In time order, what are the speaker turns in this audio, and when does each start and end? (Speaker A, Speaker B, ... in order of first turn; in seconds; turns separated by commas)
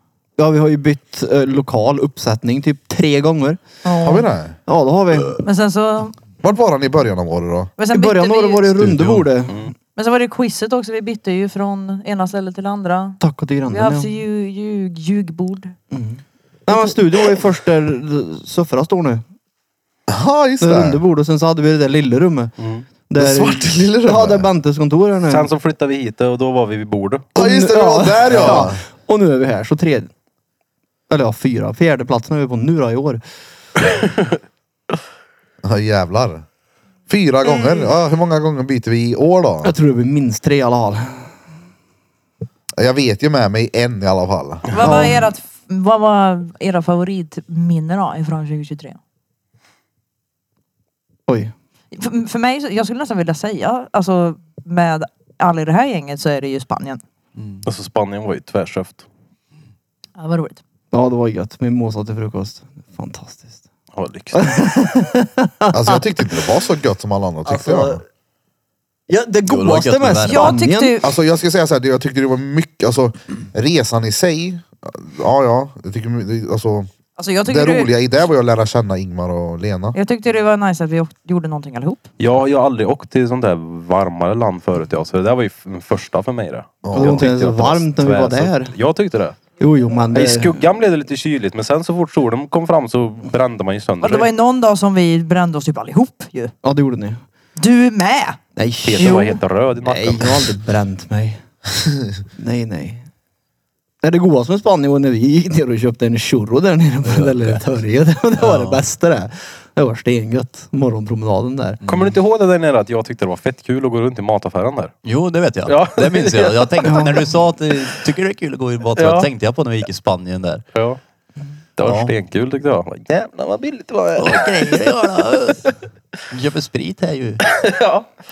Speaker A: 0.4-3.6, Speaker B: 3.8-4.2, Speaker C: 4.0-4.5, Speaker A: 4.7-5.4, Speaker B: 5.4-6.2, Speaker C: 6.4-7.7, Speaker B: 7.8-8.9, Speaker A: 7.9-9.7, Speaker D: 8.9-9.2, Speaker B: 9.9-15.7, Speaker A: 13.2-14.1, Speaker A: 15.9-19.2, Speaker C: 20.1-21.0, Speaker A: 20.6-22.5, Speaker E: 22.6-22.8, Speaker A: 23.1-25.5, Speaker C: 23.1-24.5, Speaker E: 25.3-27.3, Speaker C: 27.3-28.8, Speaker A: 27.4-30.1, Speaker E: 28.3-28.6, Speaker A: 31.1-33.2, Speaker C: 35.6-36.4, Speaker C: 37.1-39.7, Speaker A: 39.6-41.3, Speaker C: 42.8-45.1, Speaker B: 44.7-49.0, Speaker A: 44.8-45.2, Speaker A: 51.3-51.5, Speaker B: 51.9-57.0, Speaker D: 57.4-57.6, Speaker E: 57.6-59.0, Speaker B: 60.2-60.6, Speaker A: 60.9-63.6, Speaker E: 63.9-64.5, Speaker A: 64.3-66.0, Speaker C: 65.7-68.0, Speaker A: 67.5-68.0, Speaker A: 69.1-71.0, Speaker D: 69.5-70.6, Speaker B: 70.2-71.1, Speaker C: 71.0-76.9, Speaker B: 77.2-77.9, Speaker C: 77.5-80.0, Speaker B: 79.9-82.0, Speaker E: 82.2-89.4, Speaker C: 86.8-87.3, Speaker A: 86.9-88.7, Speaker A: 89.6-90.6, Speaker E: 90.1-94.3, Speaker B: 94.0-96.5, Speaker A: 96.6-97.2, Speaker B: 97.6-98.4, Speaker A: 98.5-101.4, Speaker E: 98.8-100.5, Speaker B: 99.0-99.3, Speaker A: 102.3-103.0, Speaker A: 104.0-111.8, Speaker D: 107.0-107.6, Speaker D: 108.4-108.8, Speaker D: 111.8-112.2, Speaker E: 111.8-114.9, Speaker D: 115.0-120.6, Speaker E: 115.7-117.2, Speaker A: 116.8-117.1, Speaker E: 119.0-119.3, Speaker E: 120.7-121.0, Speaker E: 121.8-124.8, Speaker D: 121.8-122.1, Speaker D: 124.2-125.7, Speaker D: 126.3-127.4, Speaker E: 127.5-128.1